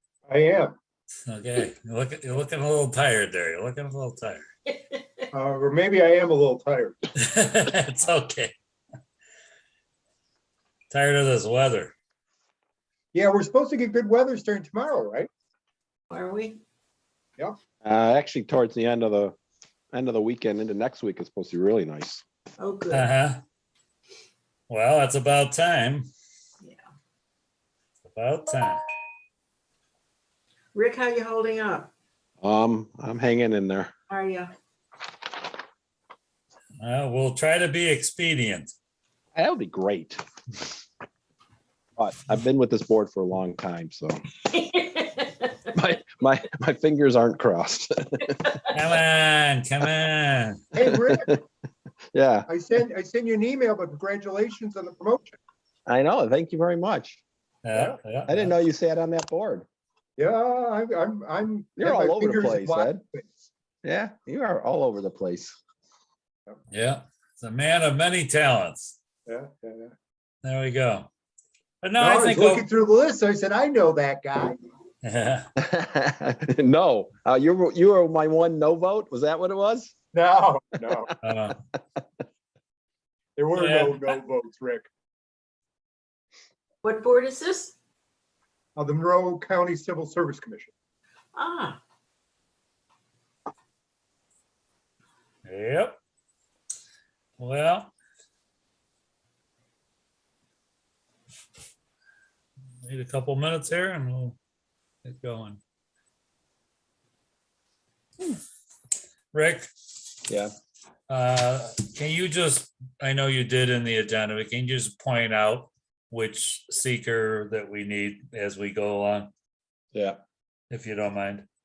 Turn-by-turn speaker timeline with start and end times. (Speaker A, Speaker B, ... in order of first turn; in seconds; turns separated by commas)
Speaker A: 0.3-0.7, Speaker B: 1.3-4.5, Speaker A: 5.3-7.0, Speaker B: 7.2-8.5, Speaker B: 10.9-11.9, Speaker A: 13.1-15.3, Speaker C: 16.1-16.6, Speaker D: 17.8-19.4, Speaker D: 19.9-22.2, Speaker C: 22.6-23.1, Speaker B: 22.9-23.4, Speaker B: 24.7-26.1, Speaker B: 28.0-28.8, Speaker C: 30.7-31.9, Speaker D: 32.4-33.9, Speaker C: 34.1-34.5, Speaker B: 36.8-38.7, Speaker D: 39.4-40.2, Speaker D: 42.0-44.2, Speaker C: 44.5-45.5, Speaker D: 45.7-48.5, Speaker B: 48.7-50.6, Speaker A: 50.8-51.4, Speaker D: 52.1-52.5, Speaker A: 52.5-55.4, Speaker D: 55.9-57.2, Speaker B: 57.6-58.5, Speaker D: 58.3-59.7, Speaker A: 60.2-63.2, Speaker D: 61.8-63.0, Speaker D: 63.8-65.6, Speaker B: 66.7-69.0, Speaker A: 69.3-69.9, Speaker B: 70.4-71.1, Speaker B: 71.8-72.7, Speaker A: 72.0-74.6, Speaker B: 75.0-75.5, Speaker D: 75.6-79.9, Speaker A: 80.1-81.1, Speaker B: 81.2-81.6, Speaker A: 83.4-84.9, Speaker B: 83.6-84.2, Speaker C: 86.8-87.8, Speaker A: 88.8-90.7, Speaker C: 91.3-91.8, Speaker B: 95.5-96.0, Speaker B: 97.4-97.9, Speaker B: 102.8-104.4, Speaker B: 105.0-105.6, Speaker B: 109.3-109.7, Speaker D: 110.3-110.5, Speaker B: 111.1-119.3, Speaker D: 119.9-120.2, Speaker B: 120.7-121.5